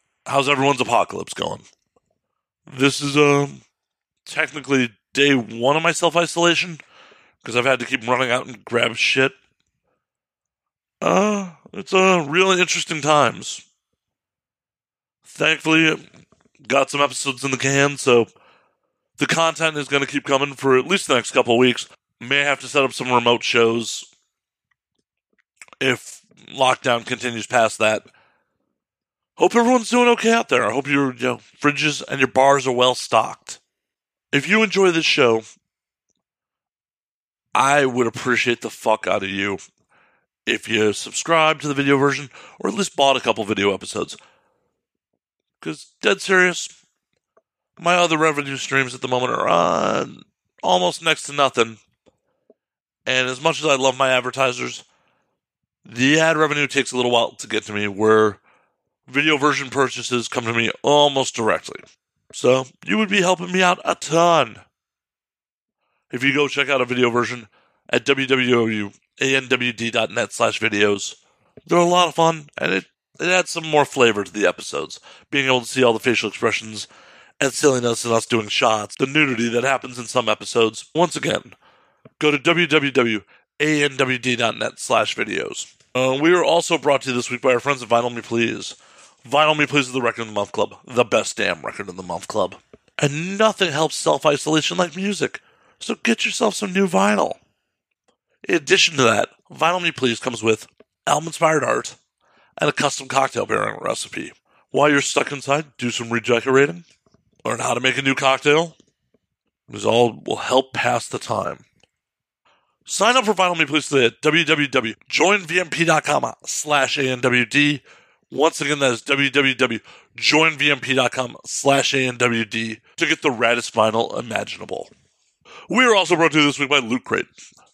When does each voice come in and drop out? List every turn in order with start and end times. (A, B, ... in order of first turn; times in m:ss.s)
0:00.3-0:01.6 A
0:02.7-0:03.6 A
0:04.3-0:06.8 A
0:07.4-0:09.4 A
0:11.0-0:13.6 A
0:15.3-0:16.0 A
0:16.6-0:18.3 A
0:19.2-0:24.1 A
0:25.8-0:28.0 A
0:29.4-0:33.6 A
0:34.3-0:35.4 A
0:37.6-0:39.6 A
0:40.5-0:44.2 A
0:45.6-0:46.7 A
0:47.8-0:51.8 A
0:53.1-0:54.8 A
0:55.9-0:58.4 A
0:59.1-1:01.8 A
1:02.3-1:04.6 A
1:06.1-1:16.9 A
1:17.4-1:21.6 A
1:22.2-1:37.4 A
1:38.4-1:42.0 A
1:42.6-1:46.8 A
1:47.4-1:48.8 A
1:49.7-1:51.6 A
1:52.9-2:04.9 A
2:05.7-2:07.3 A